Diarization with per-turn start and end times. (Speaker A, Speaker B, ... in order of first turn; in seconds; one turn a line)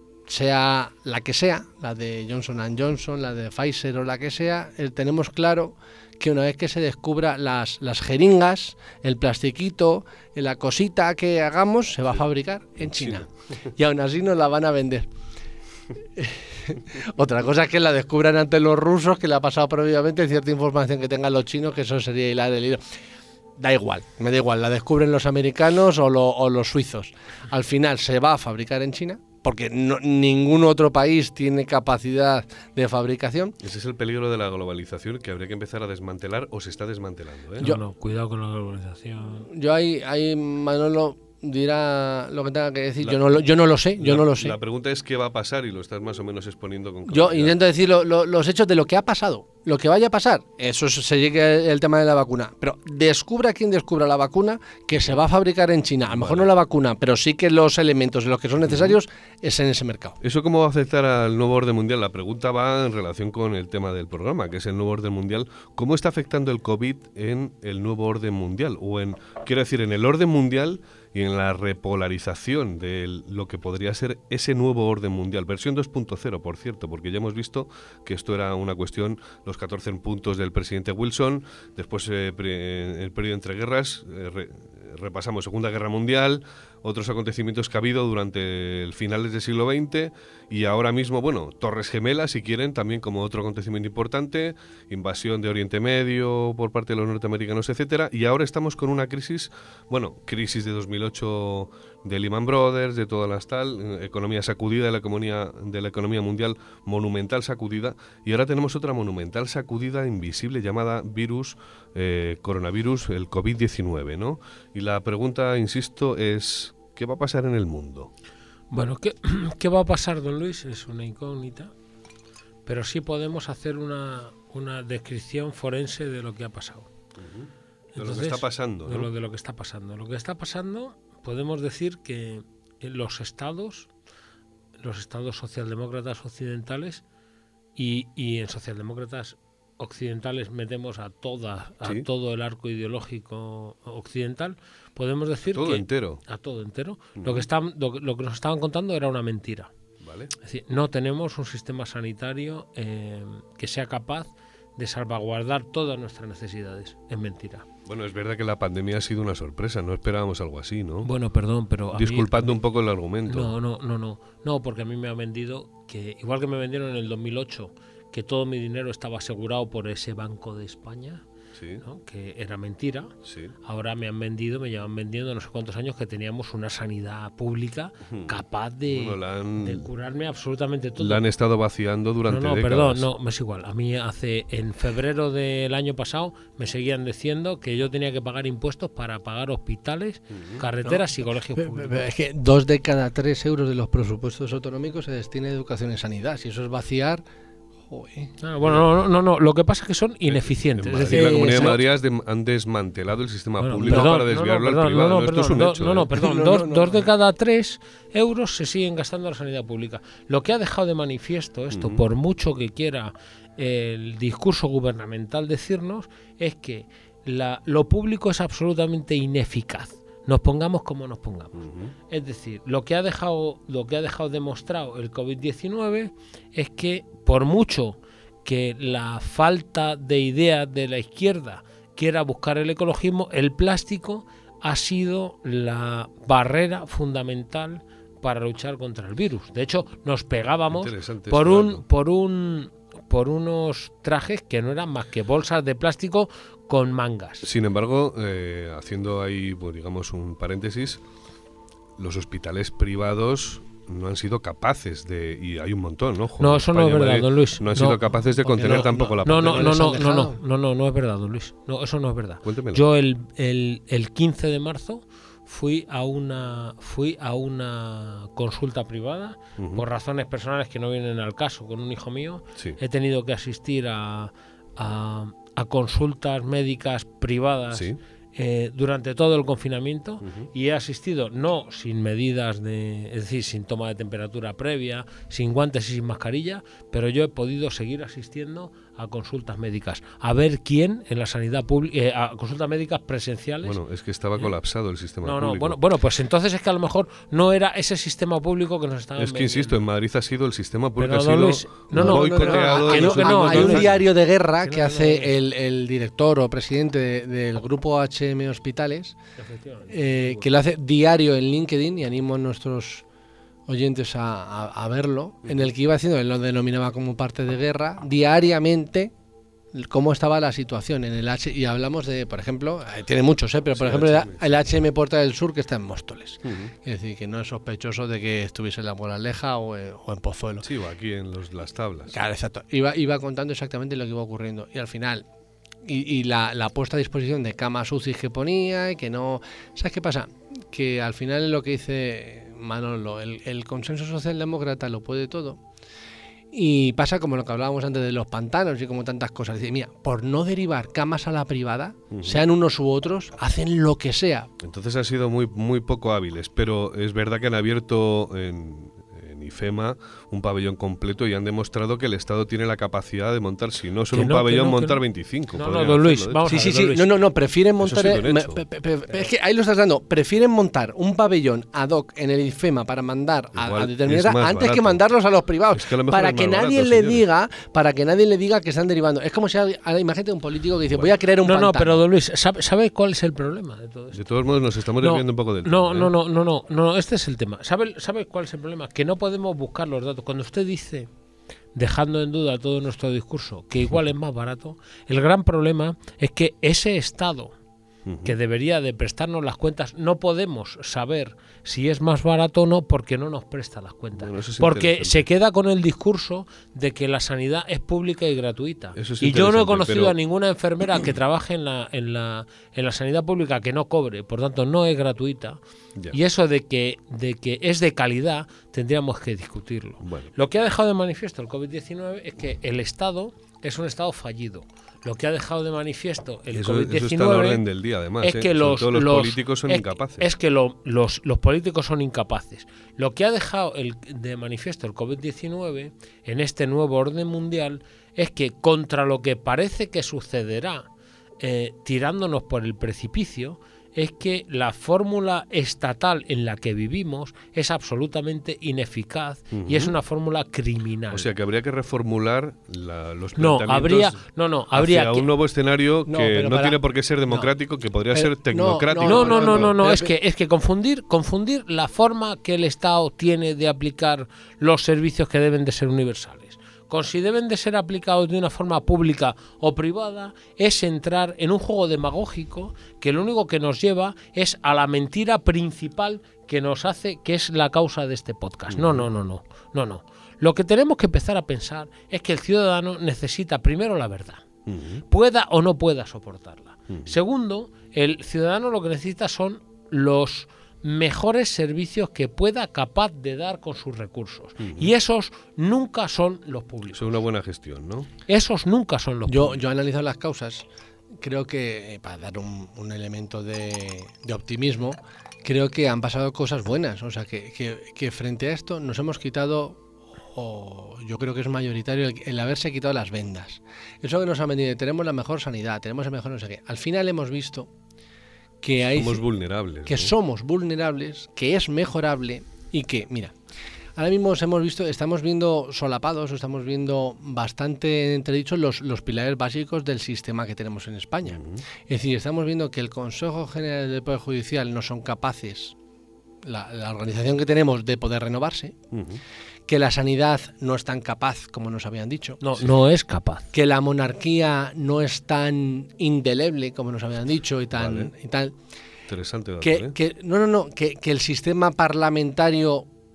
Speaker A: 0.3-15.1
Speaker B: 12.8-13.3
Speaker A: 16.2-22.8
Speaker A: 23.6-33.6
Speaker B: 33.6-37.7
Speaker C: 37.6-39.5
Speaker A: 39.5-44.6
Speaker B: 43.0-43.4
Speaker B: 44.0-47.6
Speaker A: 47.1-60.2
Speaker B: 56.1-56.5
Speaker B: 58.6-59.0
Speaker B: 60.2-118.1
Speaker C: 118.7-121.7
Speaker C: 122.7-126.9
Speaker B: 127.2-129.1
Speaker C: 128.0-133.9
Speaker C: 134.8-137.0
Speaker C: 137.8-149.7
Speaker B: 145.5-146.2
Speaker B: 147.2-147.5
Speaker B: 150.0-150.3
Speaker C: 150.4-157.7
Speaker B: 157.9-161.1
Speaker C: 161.0-162.6
Speaker B: 161.9-163.6
Speaker C: 163.3-171.2
Speaker B: 171.6-171.8
Speaker C: 171.8-173.1
Speaker B: 173.2-173.5
Speaker C: 173.6-181.2
Speaker B: 178.1-179.9
Speaker B: 181.0-183.1
Speaker C: 182.3-192.1
Speaker B: 190.3-190.6
Speaker A: 191.6-197.2
Speaker A: 197.9-198.3
Speaker C: 198.4-201.8
Speaker B: 200.3-206.1
Speaker A: 201.1-201.7
Speaker C: 203.6-247.5
Speaker A: 206.2-207.1
Speaker B: 211.7-212.0
Speaker B: 221.6-221.9
Speaker B: 240.7-241.8
Speaker B: 247.4-251.0
Speaker B: 252.0-259.8
Speaker C: 256.4-258.0
Speaker A: 258.4-260.4
Speaker C: 259.2-293.8
Speaker B: 262.4-262.8
Speaker B: 269.6-269.8
Speaker B: 277.7-278.0
Speaker B: 280.2-280.5
Speaker B: 293.6-295.8
Speaker C: 295.2-299.8
Speaker B: 299.2-304.0
Speaker C: 301.0-304.0
Speaker A: 301.9-309.2
Speaker C: 304.6-305.3
Speaker C: 309.4-310.5
Speaker A: 309.9-313.1
Speaker A: 313.7-319.1
Speaker A: 319.7-330.7
Speaker B: 323.8-324.5
Speaker B: 326.4-326.7
Speaker B: 330.6-332.2
Speaker A: 332.1-335.2
Speaker A: 335.9-345.6
Speaker A: 346.5-354.5
Speaker B: 352.1-352.4
Speaker B: 354.6-366.7
Speaker C: 364.1-365.0
Speaker C: 365.5-367.1
Speaker A: 366.4-382.0
Speaker B: 367.8-368.6
Speaker B: 373.6-375.0
Speaker B: 375.7-377.3
Speaker C: 381.4-384.2
Speaker B: 384.1-386.1
Speaker C: 385.0-391.1
Speaker C: 391.8-397.5
Speaker B: 398.1-398.4
Speaker C: 398.2-415.6
Speaker B: 404.2-405.3
Speaker B: 409.0-410.2
Speaker C: 416.1-427.6
Speaker B: 420.0-420.3
Speaker B: 426.5-430.3
Speaker C: 428.2-440.9
Speaker C: 441.4-451.3
Speaker B: 449.5-449.9
Speaker B: 451.1-454.2
Speaker C: 453.4-455.3
Speaker B: 454.7-459.8
Speaker A: 456.1-456.8
Speaker A: 458.1-460.1
Speaker C: 459.0-484.4
Speaker B: 478.7-479.1
Speaker B: 484.7-485.0
Speaker C: 485.1-497.1
Speaker B: 494.6-494.9
Speaker B: 496.9-498.1
Speaker C: 498.3-499.6
Speaker A: 499.3-500.6
Speaker A: 501.2-517.7
Speaker A: 518.6-519.2
Speaker B: 518.9-520.1
Speaker A: 519.9-523.4
Speaker A: 524.0-535.8
Speaker B: 531.3-531.6
Speaker A: 536.4-538.8
Speaker B: 538.9-539.2
Speaker A: 539.7-542.4
Speaker C: 542.4-543.5
Speaker A: 543.5-548.5
Speaker B: 547.7-548.1
Speaker B: 549.1-550.0
Speaker A: 549.6-552.9